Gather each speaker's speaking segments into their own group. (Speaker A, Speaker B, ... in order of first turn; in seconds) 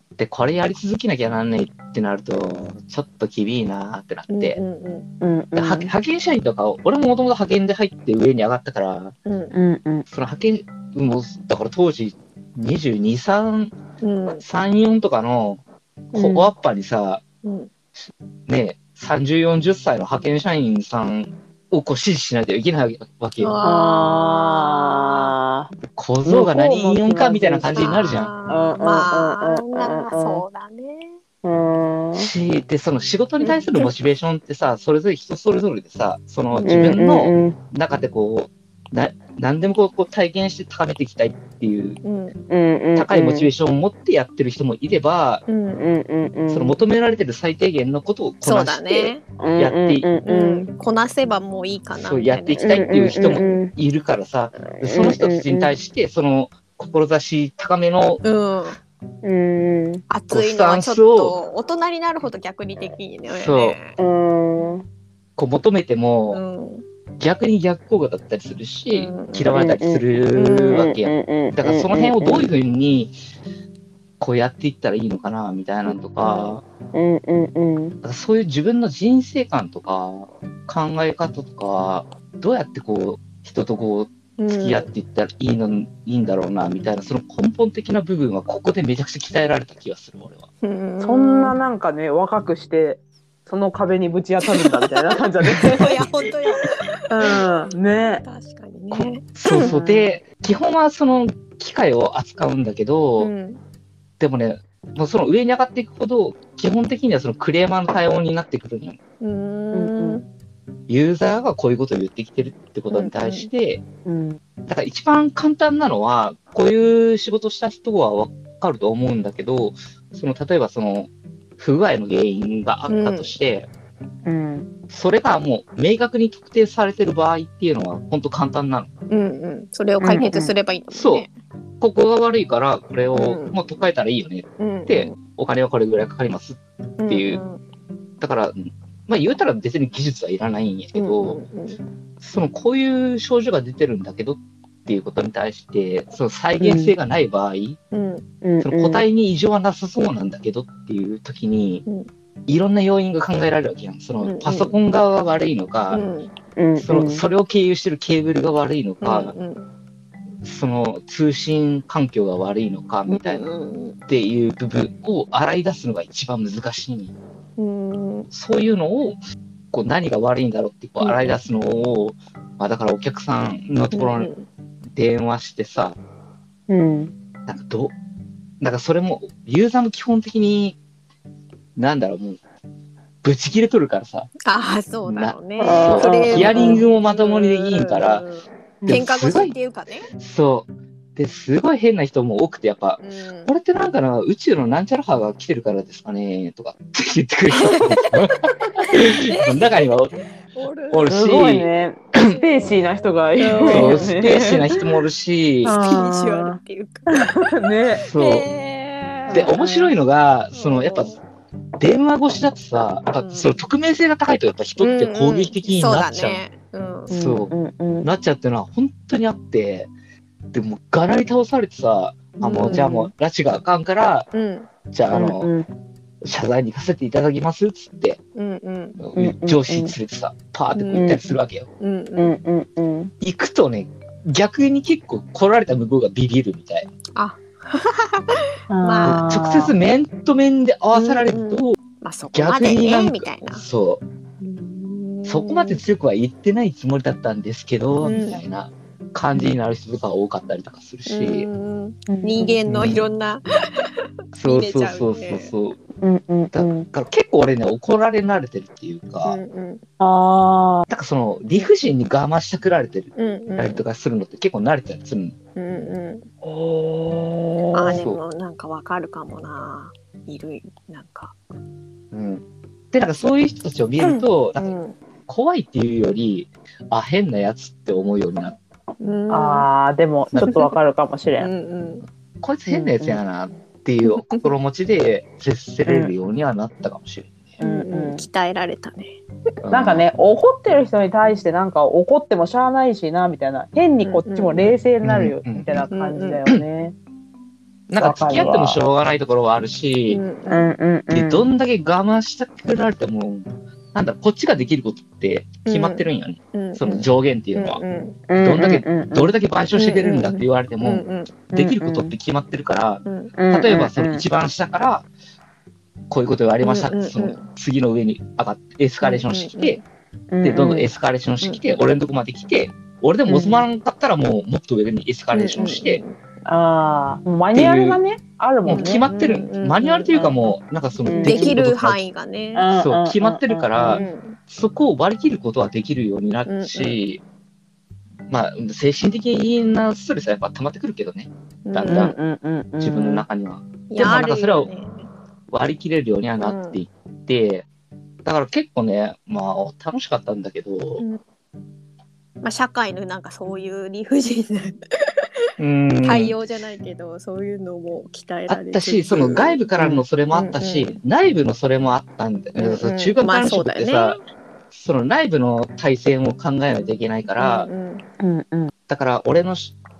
Speaker A: 0.2-4.6, 5.5-9.1, 10.1-13.7, 14.4-15.6, 16.1-17.2, 18.5-23.6, 25.9-28.3, 32.1-42.0, 43.0-45.4, 46.5-50.1, 51.9-58.2, 60.3-61.4, 63.3-63.8, 65.4-66.4, 67.2-73.1, 74.2-76.6, 78.0-90.5, 98.9-103.3, 104.2-109.0, 110.9-113.8, 114.7-123.7, 124.9-128.9, 130.9-131.2, 131.8-137.4, 138.2-141.4, 142.2-147.8, 148.6-151.8, 152.5-156.0, 156.8-159.3, 160.4-163.4, 164.1-167.1, 168.3-169.2, 169.7-174.3, 174.9-176.0, 177.4-177.9, 178.6-180.8, 181.8-182.4, 183.2-184.3, 185.0-188.2, 188.9-189.5, 190.2-200.1, 200.9-202.3, 203.6-205.9, 208.0-208.5, 209.3-211.2, 211.8-216.4, 217.1-219.9, 220.5-224.3, 224.9-225.5, 226.2-228.2, 229.0-231.7, 233.2-236.9, 239.0-241.8, 242.3-244.0, 245.2-251.5, 252.7-253.1, 254.3-255.8, 256.5-259.4, 260.9-265.4, 267.9-268.2, 272.1-278.6, 282.4-287.6, 289.6-290.0, 295.0-295.8, 297.9-300.2, 301.1-307.8, 308.4-315.1, 316.1-319.8, 320.4-326.0, 327.5-328.0, 328.6-332.0, 332.7-337.2, 338.3-342.1, 342.8-344.7, 345.5-347.7, 348.2-351.0, 355.6-356.4, 358.5-364.2, 364.7-367.7, 368.9-369.7
Speaker B: 4.3-5.1, 9.2-9.5, 14.0-14.4, 17.4-17.7, 23.4-25.3, 27.7-31.2, 33.4-33.9, 42.0-42.3, 45.5-45.8, 48.4-49.2, 50.2-53.5, 58.2-58.8, 60.1-64.0, 66.3-66.8, 68.9-69.6, 70.3-70.9, 76.2-76.6, 84.4-84.9, 90.6-91.5, 94.5-95.0, 95.7-97.5, 98.2-99.7, 103.2-103.6, 109.2-110.2, 112.9-113.5, 122.9-123.3, 129.1-131.3, 133.1-133.5, 134.6-135.1, 137.0-137.6, 140.9-141.8, 147.9-148.2, 154.2-154.7, 155.9-156.3, 159.0-159.7, 163.1-164.0, 167.6-168.3, 171.0-171.3, 173.9-174.5, 184.4-190.1, 193.0-193.5, 197.5-199.9, 200.5-201.3, 202.2-204.2, 205.6-209.6, 210.5-211.2, 213.2-213.5, 214.8-217.1, 222.4-222.9, 224.3-224.7, 228.3-229.0, 230.7-231.1, 231.8-232.3, 237.1-239.2, 240.9-243.6, 244.4-245.8, 248.0-248.4, 251.1-255.5, 259.2-259.8, 263.1-263.8, 265.6-266.2, 267.7-271.4, 274.0-275.0, 279.0-279.7, 280.4-280.7, 281.4-282.0, 284.0-284.5, 287.6-289.2, 294.0-294.7, 295.9-296.4, 300.1-300.7, 305.6-308.2, 309.7-311.3, 313.0-313.3, 316.6-317.4, 319.0-319.8, 325.3-326.2, 328.7-330.2, 331.2-332.7, 333.9-334.4, 336.5-337.0, 341.6-342.1, 343.9-345.1, 346.4-346.8, 352.4-355.2, 356.0-359.6, 360.3-360.9, 362.6-364.2, 367.4-368.0
Speaker C: 5.2-5.9, 9.5-10.0, 16.1-16.5, 23.6-25.7, 26.2-27.9, 28.5-30.4, 31.4-32.3, 36.6-37.6, 42.5-43.5, 45.7-46.8, 49.4-50.7, 52.6-53.7, 54.7-55.7, 59.2-60.0, 64.0-64.8, 69.5-70.0, 70.6-72.5, 76.9-78.0, 91.0-95.9, 97.1-98.2, 99.5-100.1, 109.7-110.2, 114.0-114.4, 124.2-124.7, 130.0-130.5, 146.6-146.9, 148.4-149.0, 156.6-157.2, 176.7-177.1, 185.6-186.8, 201.1-204.6, 205.6-208.0, 209.3-209.9, 217.1-218.1, 222.6-223.1, 225.1-225.7, 229.1-229.9, 230.9-231.2, 232.2-233.1, 238.7-239.7, 248.0-248.3, 252.1-252.6, 256.0-256.9, 260.0-260.9, 266.4-268.0, 279.3-281.5, 282.7-283.2, 285.9-286.1, 287.6-288.2, 289.7-296.9, 298.0-298.8, 300.5-301.5, 308.3-309.3, 311.5-312.1, 313.4-314.2, 320.3-320.9, 323.3-323.6, 326.4-329.0, 331.0-331.6, 332.5-334.0, 341.9-343.2, 359.8-360.0, 368.2-368.7